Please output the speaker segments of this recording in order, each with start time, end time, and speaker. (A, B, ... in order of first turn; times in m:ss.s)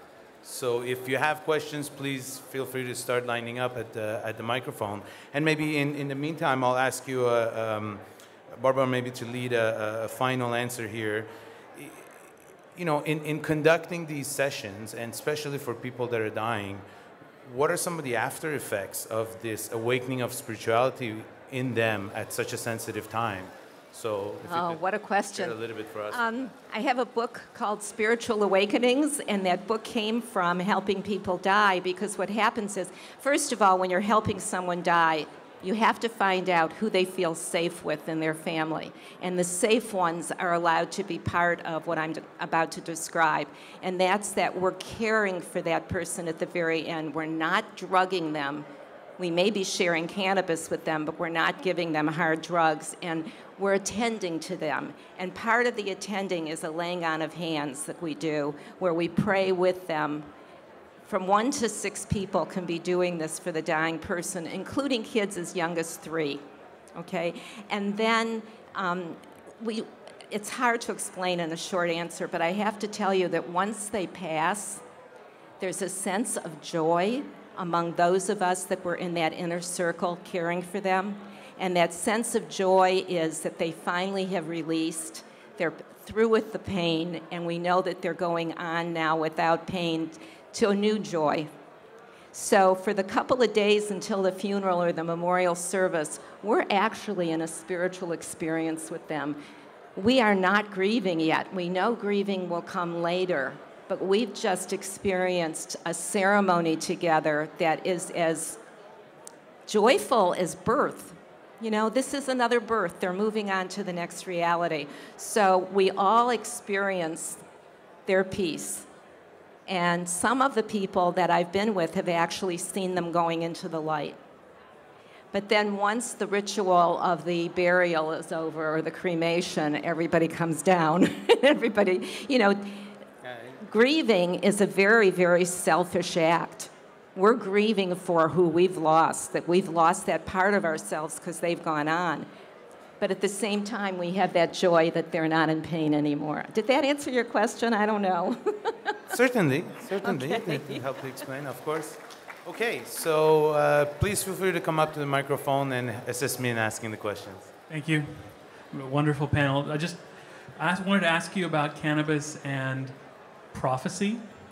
0:00.4-0:12.1 A
0:12.7-0:16.8 A
0:17.4-0:24.8 A
0:24.4-0:25.6 B
0:25.3-0:26.2 A
0:26.1-0:48.7 B
0:49.2-1:00.3 B
1:01.0-1:06.4 B
1:06.9-1:14.8 B
1:15.6-1:31.5 B
1:32.3-1:39.4 B
1:40.0-1:48.6 B
1:49.7-1:57.4 B
1:58.1-1:58.9 B
1:59.7-2:04.2 B
2:05.3-2:12.9 B
2:13.2-2:13.6 A
2:13.6-2:22.3 B
2:23.0-2:29.0 B
2:29.1-2:37.5 A
2:30.0-2:30.8 B
2:37.7-2:43.0 C
2:43.5-2:44.3 C